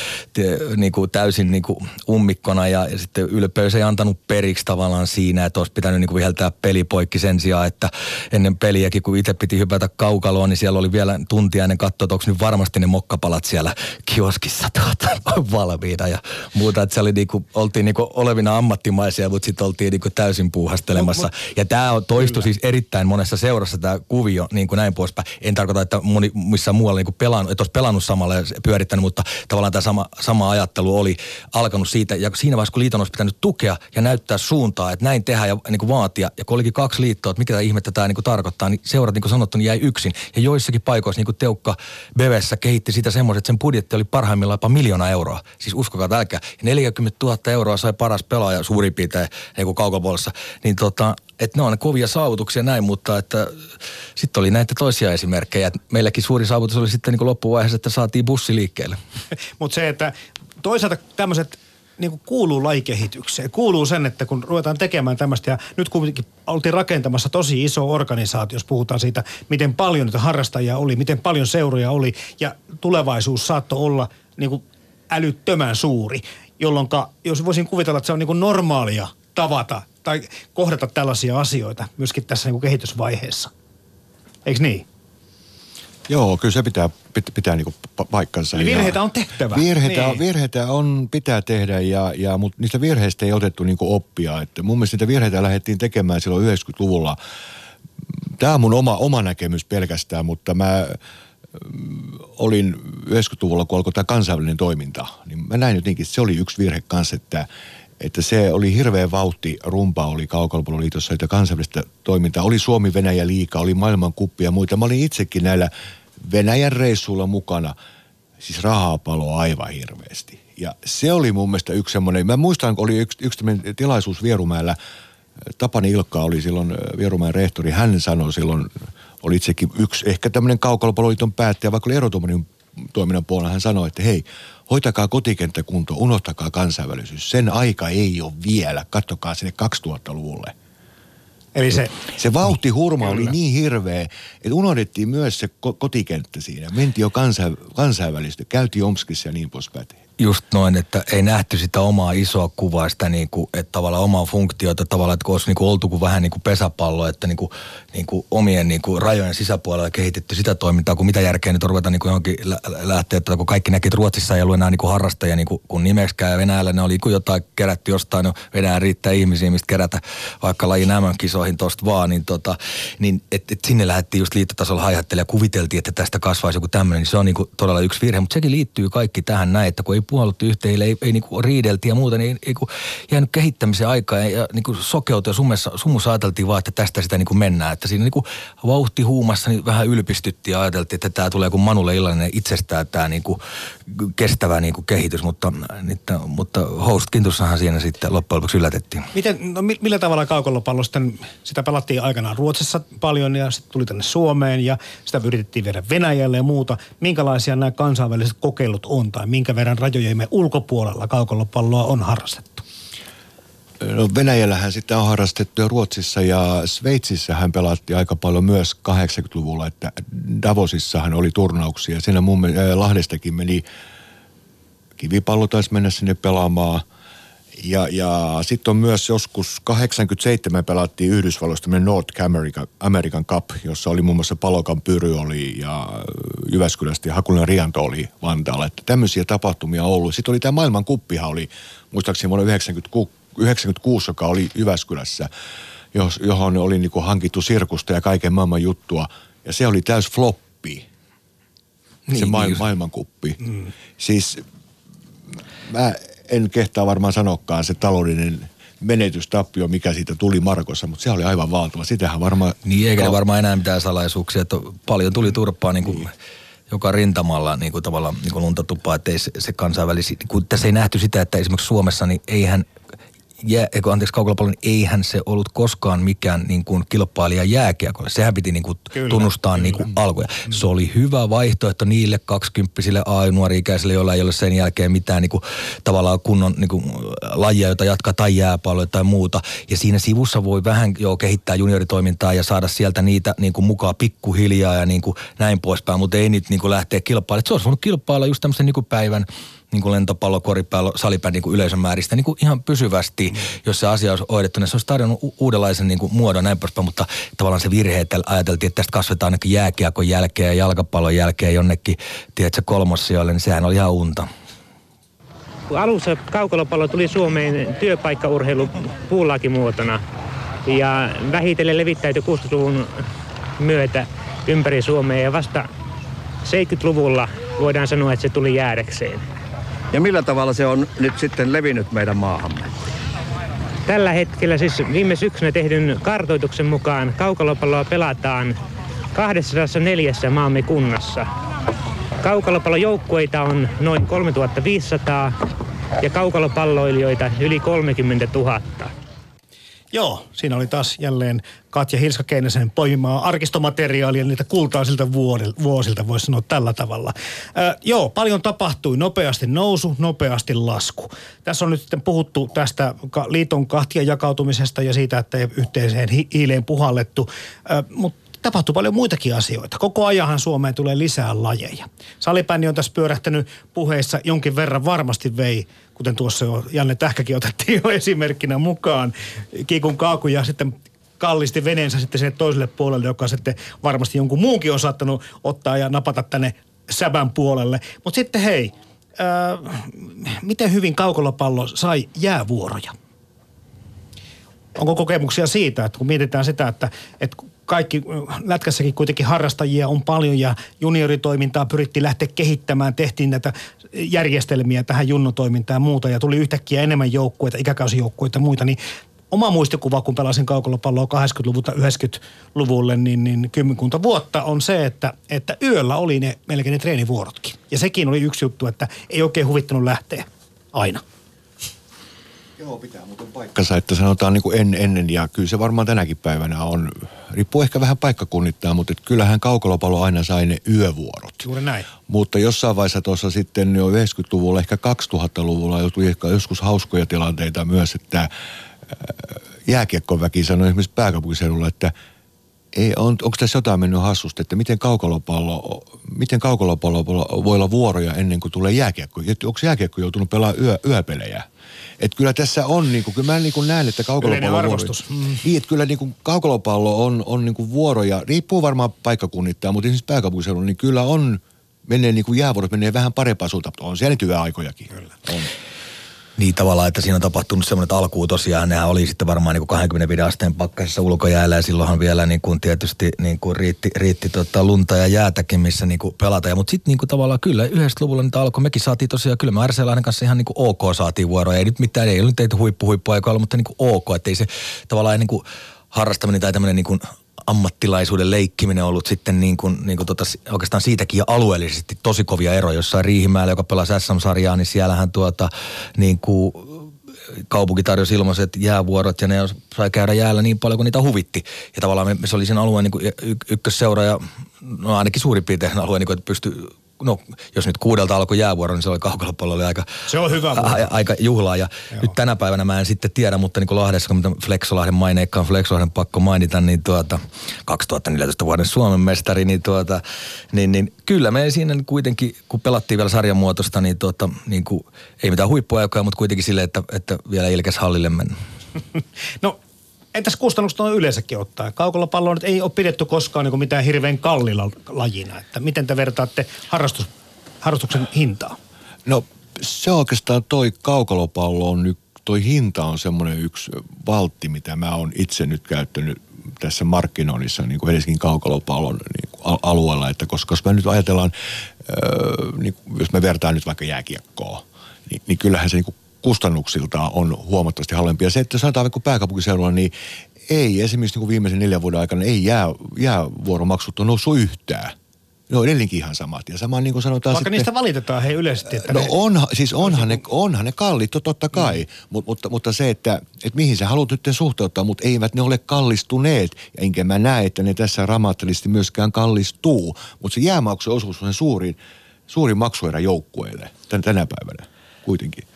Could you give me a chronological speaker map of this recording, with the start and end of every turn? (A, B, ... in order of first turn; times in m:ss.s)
0:00.3-0:53.6 A
0:21.0-0:21.3 B
0:22.2-0:22.4 B
0:54.2-0:59.0 A
0:59.6-1:23.5 B
1:24.5-1:24.9 B
1:26.1-1:37.2 C
1:28.5-1:30.2 B
1:38.4-1:41.0 C
1:41.5-1:47.5 C
1:48.0-1:57.8 C
1:58.4-2:04.8 C
2:05.6-2:20.5 C
2:21.6-2:22.0 B
2:22.2-2:30.0 C
2:23.0-2:23.3 B
2:30.2-3:13.4 A
3:13.9-3:19.1 A
3:19.1-3:32.6 B
3:33.8-3:43.6 C
3:45.0-3:46.8 C
3:47.6-4:05.3 C
4:05.9-4:10.8 C
4:12.1-4:13.4 C
4:12.1-4:12.6 A
4:14.0-4:14.4 C
4:15.6-4:23.2 C
4:22.6-4:26.1 A
4:26.7-4:32.7 A
4:33.4-5:14.3 A
4:39.0-4:39.9 B
5:15.7-5:20.0 D
5:20.7-5:22.9 D
5:23.6-5:25.7 D
5:26.4-5:29.2 D
5:29.9-5:32.6 E
5:33.9-5:38.6 D
5:39.1-5:41.3 D
5:42.2-5:45.4 D
5:46.0-5:48.9 D
5:49.9-6:32.9 B
6:34.8-6:48.8 B
6:49.3-7:01.0 B
7:02.6-7:11.5 C
7:11.4-7:11.9 B
7:12.1-7:18.3 C
7:19.0-7:21.9 C
7:22.7-7:31.5 C
7:32.0-7:45.5 C
7:34.2-7:35.4 B
7:46.4-8:16.9 A
8:17.5-8:29.9 A
8:30.1-8:30.9 B
8:30.5-8:40.0 A
8:40.5-8:48.4 A
8:50.1-8:58.6 B
8:59.1-9:11.3 C
9:11.8-9:19.9 C
9:20.5-9:24.9 C
9:25.5-9:27.7 C
9:27.3-9:29.2 B
9:28.7-9:45.4 C
9:29.9-9:30.2 B